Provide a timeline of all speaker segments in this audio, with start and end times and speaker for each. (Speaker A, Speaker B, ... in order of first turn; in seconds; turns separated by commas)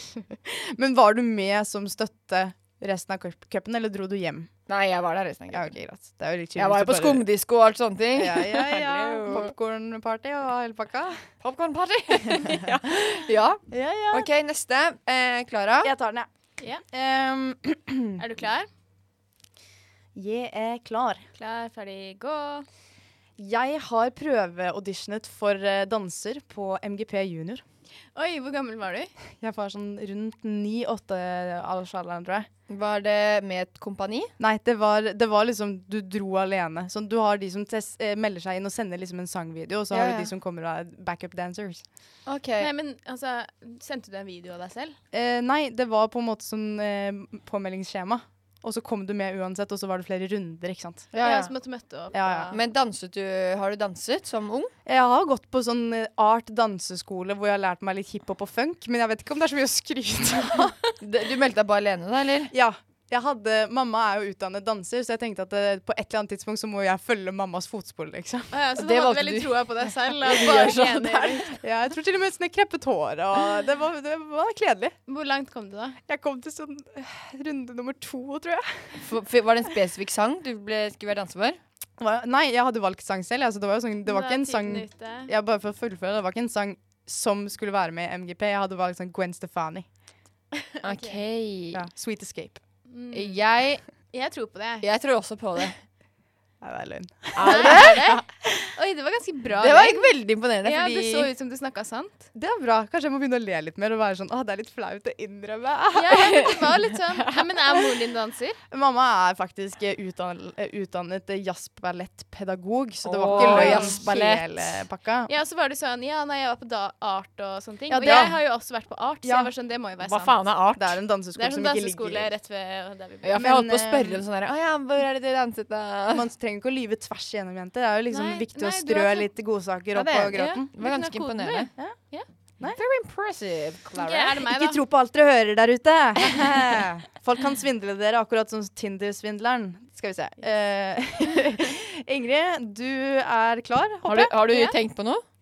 Speaker A: 0.5-4.5, Speaker B: 4.7-5.7, Speaker A: 5.5-7.2, Speaker B: 6.6-9.5, Speaker A: 8.2-11.2, Speaker B: 11.4-15.9, Speaker A: 13.7-14.3, Speaker A: 15.8-16.3, Speaker A: 16.9-18.2, Speaker C: 18.2-18.7, Speaker A: 20.1-21.2, Speaker C: 21.4-22.7, Speaker A: 23.4-27.6, Speaker C: 28.1-29.1, Speaker A: 29.4-32.5, Speaker B: 32.7-34.3, Speaker A: 34.4-41.8, Speaker B: 39.9-40.3, Speaker B: 42.3-42.7, Speaker C: 42.6-45.0, Speaker A: 45.1-51.1, Speaker B: 51.1-51.5, Speaker C: 51.2-52.6, Speaker A: 52.1-52.5, Speaker B: 52.5-54.7, Speaker A: 54.9-60.9, Speaker B: 61.0-62.5, Speaker A: 62.5-68.5, Speaker C: 68.5-71.5, Speaker B: 68.8-71.5, Speaker A: 71.6-75.0, Speaker C: 75.1-76.0, Speaker A: 76.1-78.9, Speaker B: 79.0-81.6, Speaker A: 82.0-89.9, Speaker C: 84.1-85.3, Speaker C: 90.7-91.2, Speaker B: 90.8-91.8, Speaker A: 91.7-92.6, Speaker C: 92.9-93.4, Speaker B: 93.1-93.8, Speaker C: 94.1-94.9, Speaker B: 94.8-95.8, Speaker A: 96.6-98.7, Speaker B: 97.4-98.1, Speaker C: 97.4-100.1, Speaker B: 99.6-101.3, Speaker C: 100.6-102.3, Speaker A: 102.3-106.5, Speaker C: 105.9-108.6, Speaker B: 106.3-106.6, Speaker A: 108.7-115.3, Speaker B: 113.0-114.8, Speaker C: 113.3-114.0, Speaker C: 115.3-120.4, Speaker A: 117.9-118.4, Speaker A: 119.2-119.5, Speaker B: 120.0-121.0, Speaker A: 120.8-122.3, Speaker C: 121.3-123.4, Speaker B: 123.2-126.3, Speaker A: 123.4-124.2, Speaker A: 126.1-130.7, Speaker C: 128.1-129.3, Speaker B: 129.9-131.7, Speaker C: 130.3-132.3, Speaker B: 132.6-134.4, Speaker C: 134.0-134.8, Speaker A: 134.4-144.3, Speaker B: 144.1-145.2, Speaker C: 144.5-144.8